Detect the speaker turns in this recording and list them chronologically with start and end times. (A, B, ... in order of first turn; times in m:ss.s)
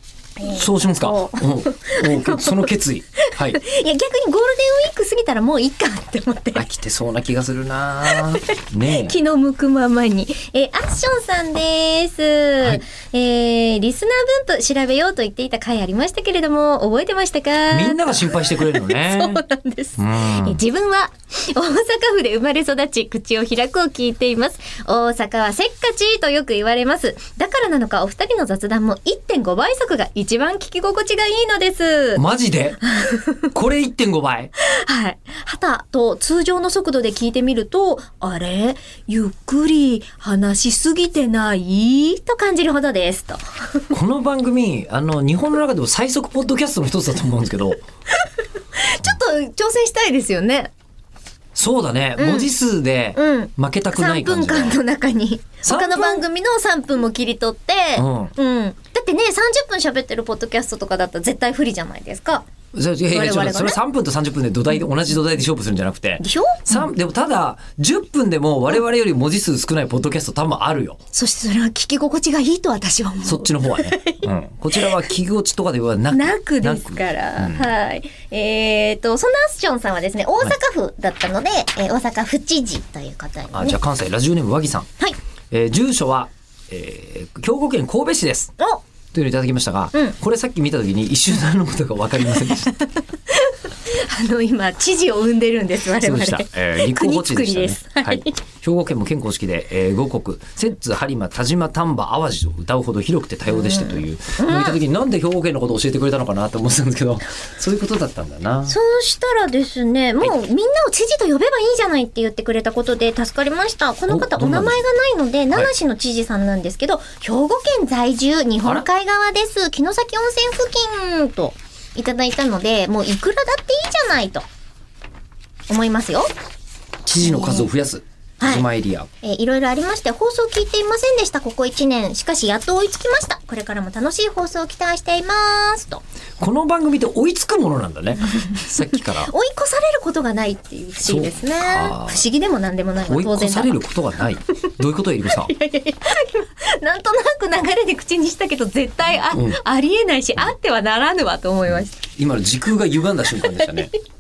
0:00.4-0:06.6 A
0:00.4-0:03.6 B
0:06.5-0:09.2 B
0:08.1-0:32.2 A
0:17.7-0:19.4 B
0:20.0-0:20.6 B
0:32.2-0:32.8 B
0:32.8-0:33.5 A
0:33.5-0:34.5 B
0:34.6-0:43.9 A
0:43.9-0:47.8 B
0:48.2-0:50.7 A
0:51.6-0:54.8 B
0:52.2-0:52.5 A
0:53.1-1:02.5 A
0:55.6-0:56.2 B
0:58.0-0:58.3 B
1:02.7-1:11.0 B
1:03.1-1:03.8 A
1:06.2-1:06.9 A
1:11.1-1:15.1 A
1:13.2-1:17.7 B
1:16.1-1:23.8 A
1:23.5-1:24.9 B
1:25.5-1:28.5 B
1:29.1-1:32.7 B
1:32.3-1:38.4 A
1:36.0-1:48.7 B
1:43.5-1:44.8 A
1:48.7-2:04.4 A
1:54.1-1:54.8 B
2:05.7-2:06.3 A
2:07.0-2:09.1 B
2:07.2-2:07.7 A
2:08.4-2:08.7 A
2:09.2-2:16.0 A
2:16.4-2:19.3 B
2:18.9-2:23.8 A
2:21.0-2:22.2 B
2:23.1-2:25.5 B
2:25.3-2:32.0 A
2:29.3-2:29.6 B
2:32.0-2:33.9 B
2:33.3-2:34.0 A